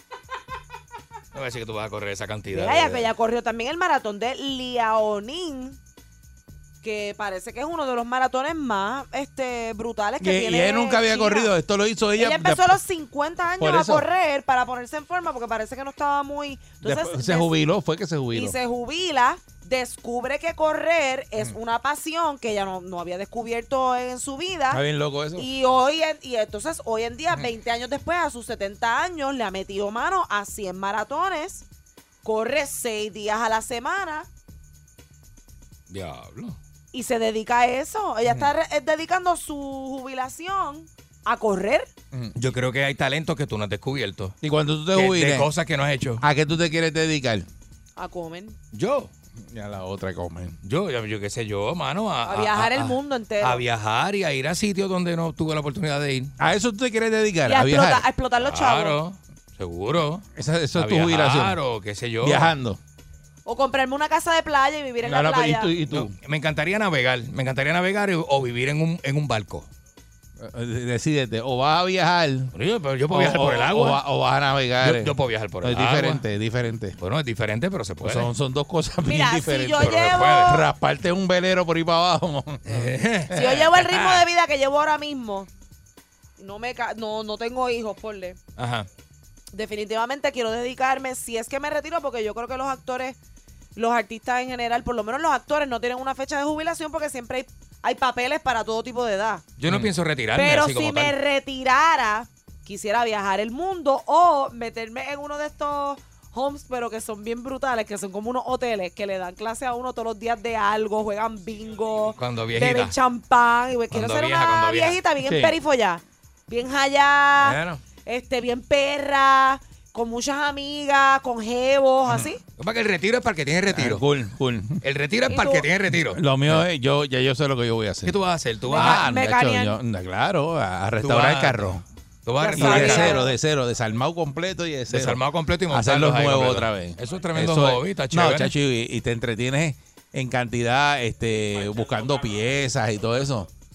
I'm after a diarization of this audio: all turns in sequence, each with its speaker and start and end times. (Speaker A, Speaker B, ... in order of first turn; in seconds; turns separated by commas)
Speaker A: 1.3-3.1, Speaker B: 2.5-5.8, Speaker B: 6.8-11.5, Speaker C: 10.2-12.8, Speaker B: 12.2-17.5, Speaker C: 13.6-14.1, Speaker C: 16.8-18.6, Speaker B: 18.3-24.8, Speaker C: 24.7-25.5, Speaker B: 25.4-31.6, Speaker B: 32.2-34.3, Speaker A: 35.9-36.6, Speaker B: 36.9-41.9, Speaker A: 42.3-44.4, Speaker C: 44.4-45.5, Speaker A: 44.9-46.2, Speaker C: 46.2-47.5, Speaker B: 48.0-48.6, Speaker A: 48.7-49.1, Speaker C: 49.5-50.6, Speaker A: 50.6-56.3, Speaker B: 52.2-53.6, Speaker C: 56.4-58.1, Speaker B: 57.5-59.0, Speaker A: 58.4-60.2, Speaker C: 60.3-61.6, Speaker A: 60.8-62.5, Speaker C: 62.2-62.8, Speaker B: 63.5-65.7, Speaker C: 65.0-66.1, Speaker A: 65.9-69.7, Speaker C: 70.4-72.5, Speaker A: 72.5-74.0, Speaker C: 73.1-77.0, Speaker A: 74.8-76.2, Speaker A: 77.0-78.3, Speaker C: 78.0-83.6, Speaker B: 79.0-80.7, Speaker A: 79.8-80.5, Speaker A: 82.7-84.2, Speaker B: 83.3-85.5, Speaker B: 86.4-88.4, Speaker A: 88.6-88.9, Speaker B: 89.5-93.2, Speaker B: 93.8-99.5, Speaker A: 99.6-101.1, Speaker C: 99.7-99.9, Speaker B: 100.3-122.4, Speaker A: 112.2-112.9, Speaker A: 113.9-115.0, Speaker C: 115.2-115.5, Speaker A: 117.4-117.8, Speaker A: 122.1-124.0, Speaker C: 123.7-124.8, Speaker A: 124.8-126.6, Speaker B: 125.3-125.7, Speaker C: 125.9-128.2, Speaker A: 128.0-129.0, Speaker B: 128.7-129.8, Speaker C: 128.7-131.8, Speaker A: 131.0-131.7, Speaker A: 132.2-133.2, Speaker B: 132.4-133.3, Speaker C: 132.5-143.5, Speaker A: 134.9-138.5